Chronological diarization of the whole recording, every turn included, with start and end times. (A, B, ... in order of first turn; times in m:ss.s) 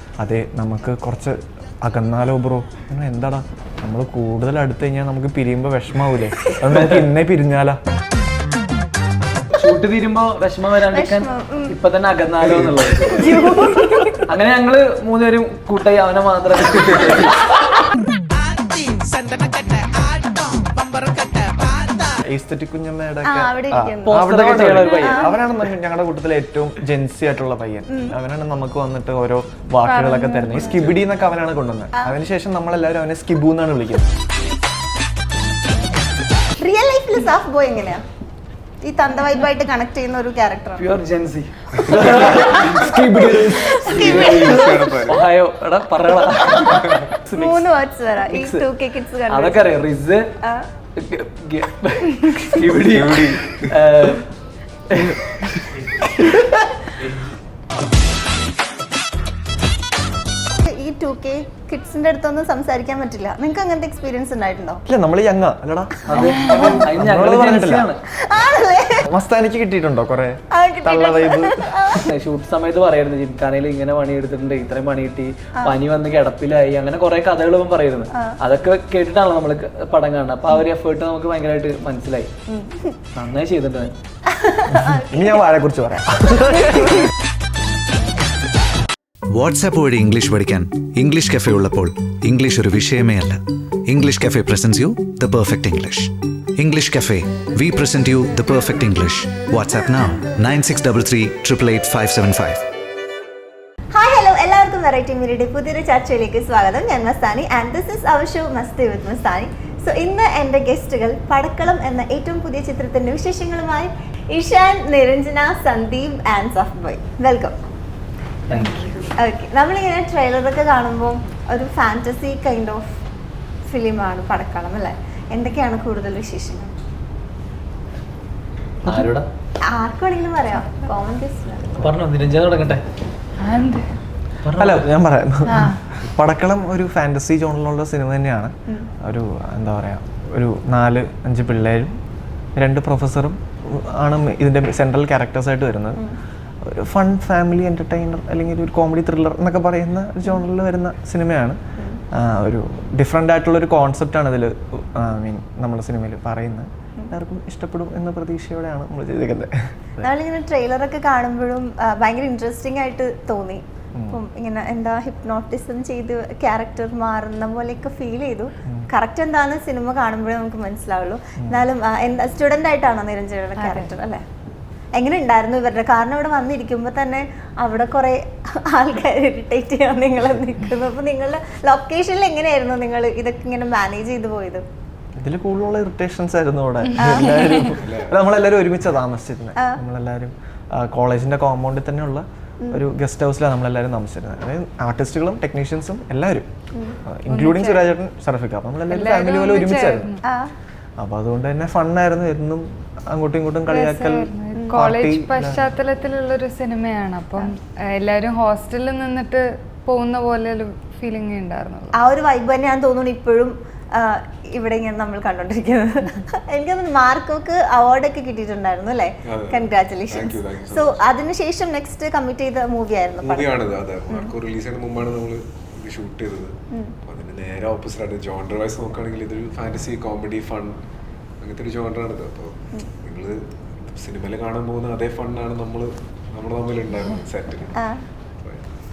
0:00.2-0:07.8 A
0:06.4-0:06.7 B
0:06.8-0:07.0 C
0:09.6-0:13.3 C
0:10.9-0:11.8 B
0:13.1-0:14.2 B
0:14.3-0:17.4 C
0:22.2-0:34.0 A
0:23.2-0:24.3 B
0:24.0-0:25.3 C
0:24.8-0:25.4 B
0:29.8-0:30.8 D
0:36.6-0:38.0 B
0:38.8-0:40.8 B
0:40.8-0:47.7 C
0:41.9-0:43.8 A
0:42.4-0:42.7 B
0:43.5-0:44.9 B
0:43.9-0:45.3 E
0:47.3-0:49.8 B
0:48.2-0:48.6 C
0:49.3-0:50.2 C
0:51.0-0:54.2 C
0:52.7-0:53.8 E
0:54.9-0:55.4 C
0:56.0-0:56.3 C
1:00.6-1:04.8 B
1:04.9-1:07.8 A
1:06.1-1:08.0 C
1:06.1-1:06.8 B
1:08.2-1:09.0 B
1:09.1-1:12.0 A
1:10.5-1:12.0 B
1:12.1-1:22.3 C
1:18.1-1:18.4 B
1:22.5-1:23.0 B
1:23.2-1:23.9 C
1:24.3-1:25.4 B
1:24.7-1:27.1 A
1:29.3-1:42.6 F
1:43.9-1:57.6 B
1:58.5-1:59.0 C
1:59.0-2:02.8 B
2:03.7-2:06.7 B
2:08.8-2:09.2 C
2:09.7-2:11.8 B
2:11.8-2:12.8 C
2:13.4-2:13.9 D
2:14.4-2:14.9 C
2:14.6-2:22.0 A
2:15.5-2:15.8 D
2:22.6-2:26.0 A
2:26.6-2:31.6 A
2:32.1-2:40.0 A
2:40.0-2:54.2 B
2:53.6-2:53.9 D
2:54.9-3:04.6 B
3:05.2-3:16.5 A
3:07.0-3:07.7 B
3:07.8-3:08.2 E
3:16.7-3:17.0 B
3:17.1-3:20.1 A
3:17.3-3:17.9 D
3:18.9-3:20.2 D
3:20.2-3:20.5 B
3:21.0-3:25.7 A
3:23.7-3:31.9 D
3:24.5-3:24.8 B
3:32.0-3:44.3 B
3:39.2-3:41.0 E
3:43.2-3:50.8 E
3:51.4-3:57.8 E
3:58.4-3:58.7 E